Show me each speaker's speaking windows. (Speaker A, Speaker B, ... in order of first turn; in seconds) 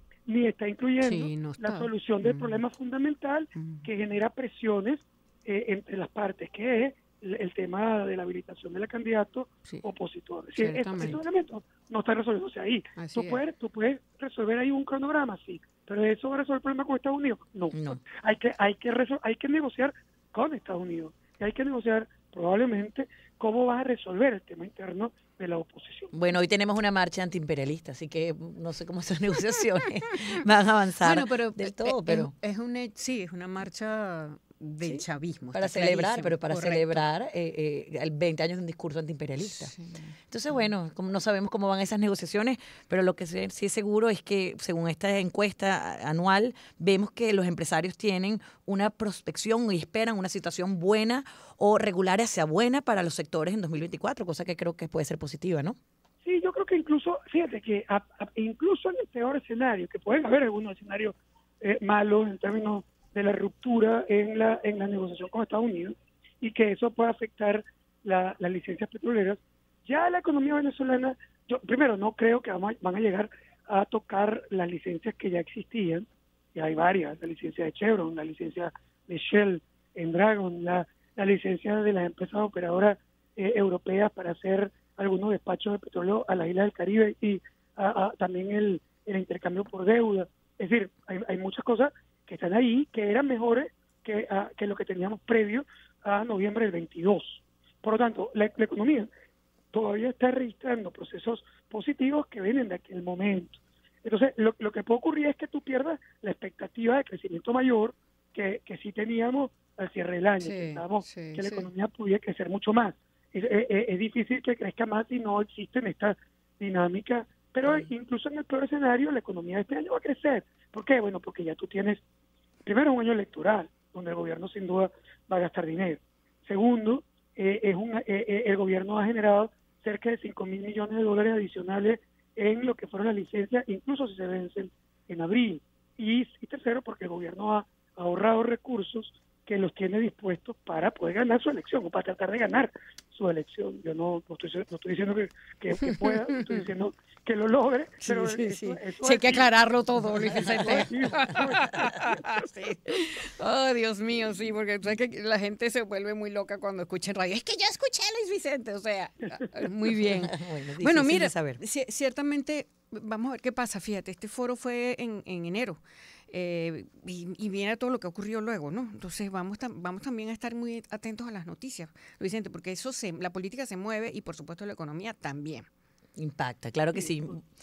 Speaker A: 0.2-26.1, 56.2-99.1, 99.7-122.0, 122.6-149.5, 150.4-152.2
Speaker B: 1.0-2.6, 3.6-3.9, 10.5-11.2, 13.0-13.4, 31.0-37.1, 39.4-40.6, 110.4-111.7, 148.0-175.7
Speaker C: 17.7-18.0, 26.1-32.3, 34.8-39.7, 40.3-55.8, 160.0-161.6, 176.2-177.4